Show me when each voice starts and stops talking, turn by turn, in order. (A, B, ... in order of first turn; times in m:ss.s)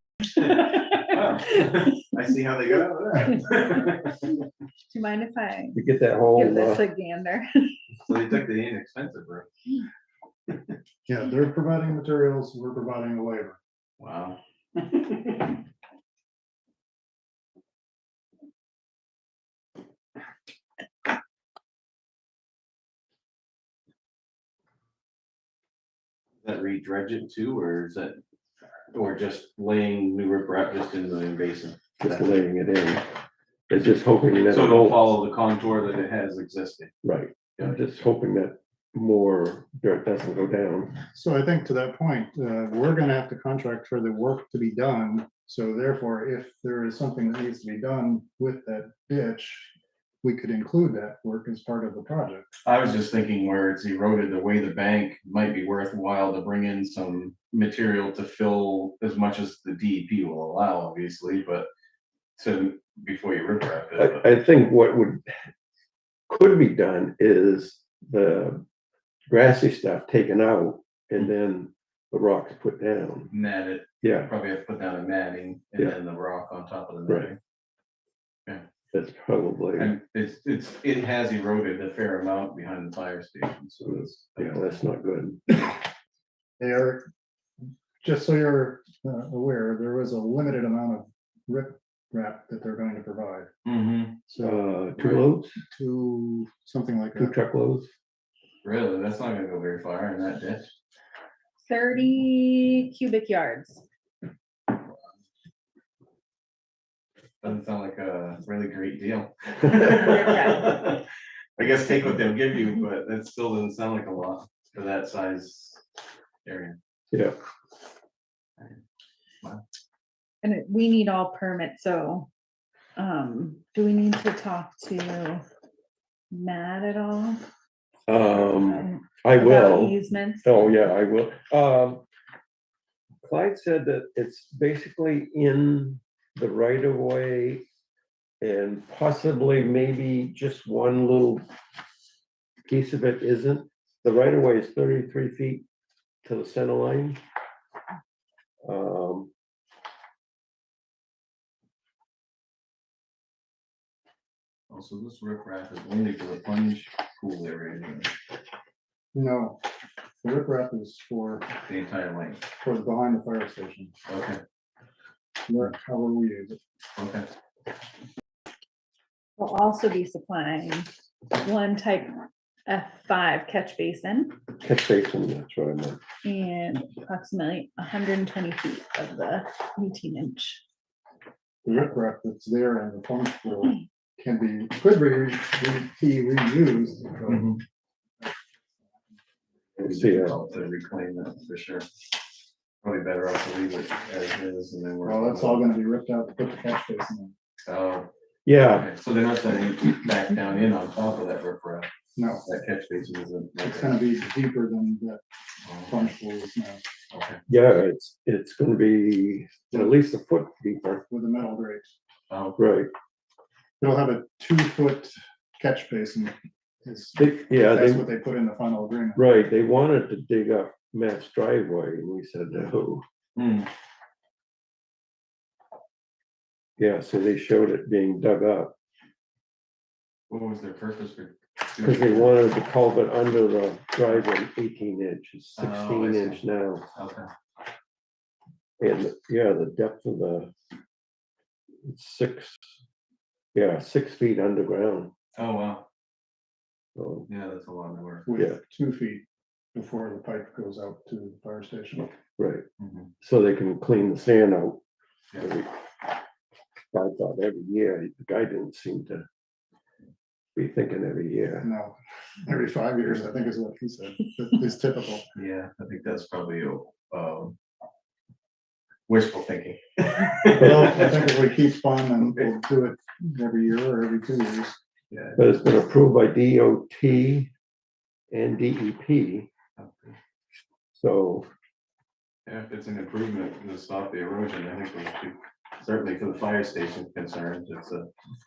0:00.4-0:04.3 A
0:04.9-0:07.8 B
0:05.7-0:06.8 C
0:08.0-0:09.5 A
0:11.0-0:13.6 D
0:14.0-0:14.4 A
0:26.4-0:28.2 A
0:28.9-0:32.4 A
0:32.0-0:33.0 C
0:33.7-0:35.1 C
0:34.5-0:36.9 A
0:37.0-0:41.0 C
0:41.1-0:49.7 D
0:50.2-0:52.5 D
0:52.6-1:01.7 A
1:02.4-1:04.3 A
1:04.0-1:05.3 C
1:06.3-1:08.6 C
1:09.3-1:13.3 C
1:13.3-1:17.4 A
1:14.0-1:14.3 C
1:18.9-1:19.9 C
1:19.8-1:24.7 A
1:23.9-1:25.8 C
1:26.6-1:27.0 D
1:28.0-1:33.5 D
1:33.6-1:34.2 A
1:34.3-1:34.6 D
1:34.4-1:35.6 C
1:35.7-1:37.3 D
1:37.2-1:37.9 C
1:38.6-1:40.7 A
1:41.6-1:43.8 B
1:47.4-1:51.0 A
1:50.0-1:50.8 B
1:51.6-1:55.8 A
1:56.4-1:56.8 A
1:57.1-1:57.4 C
2:00.4-2:02.3 B
2:03.0-2:05.4 B
2:06.3-2:07.4 B
2:08.1-2:12.0 C
2:08.1-2:10.7 B
2:13.2-2:17.6 C
2:18.4-2:21.4 C
2:22.7-2:25.6 C
2:26.2-2:27.2 C
2:28.6-2:29.3 C
2:34.7-2:38.1 A
2:39.1-2:39.6 D
2:40.2-2:41.5 D
2:41.6-2:42.4 A
2:42.6-2:43.9 D
2:44.1-2:44.4 A
2:45.5-2:46.6 D
2:47.0-2:47.3 A
2:49.4-2:54.4 B
2:54.6-2:56.0 C
2:56.2-3:00.6 B
3:01.6-3:07.6 D
3:07.3-3:07.6 A
3:09.8-3:10.4 C
3:09.8-3:11.9 A
3:12.8-3:15.7 A
3:15.0-3:17.3 D
3:17.6-3:18.1 A
3:18.4-3:18.9 C
3:18.6-3:21.9 A
3:22.2-3:22.4 D
3:22.4-3:24.0 A
3:23.6-3:25.2 D
3:25.6-3:26.1 A
3:25.8-3:26.8 D
3:27.1-3:27.4 A
3:27.5-3:31.0 C
3:29.7-3:30.0 D
3:31.1-3:31.9 D
3:32.3-3:32.6 A
3:32.6-3:32.9 C
3:33.8-3:39.2 D
3:37.2-3:38.1 C
3:39.2-3:43.0 C
3:43.4-3:43.7 A
3:46.8-3:48.7 C
3:50.3-3:52.3 A
3:51.8-3:56.9 C
3:55.5-3:56.4 A
3:56.9-3:57.3 A
3:58.8-4:00.5 C
4:01.8-4:02.6 C
4:03.5-4:05.1 C
4:05.4-4:05.8 A
4:07.0-4:07.3 C
4:07.3-4:08.3 A
4:08.2-4:12.1 D
4:12.4-4:12.6 C
4:12.8-4:13.1 A
4:13.2-4:14.8 C
4:15.4-4:15.7 C
4:16.9-4:19.2 C
4:20.6-4:21.7 C
4:21.6-4:25.3 D
4:25.4-4:27.5 A
4:29.1-4:31.4 A
4:30.4-4:34.8 D
4:35.1-4:35.4 A
4:35.4-4:37.5 C
4:38.3-4:39.5 C
4:39.8-4:40.2 A
4:40.9-4:41.5 C
4:42.4-4:48.1 A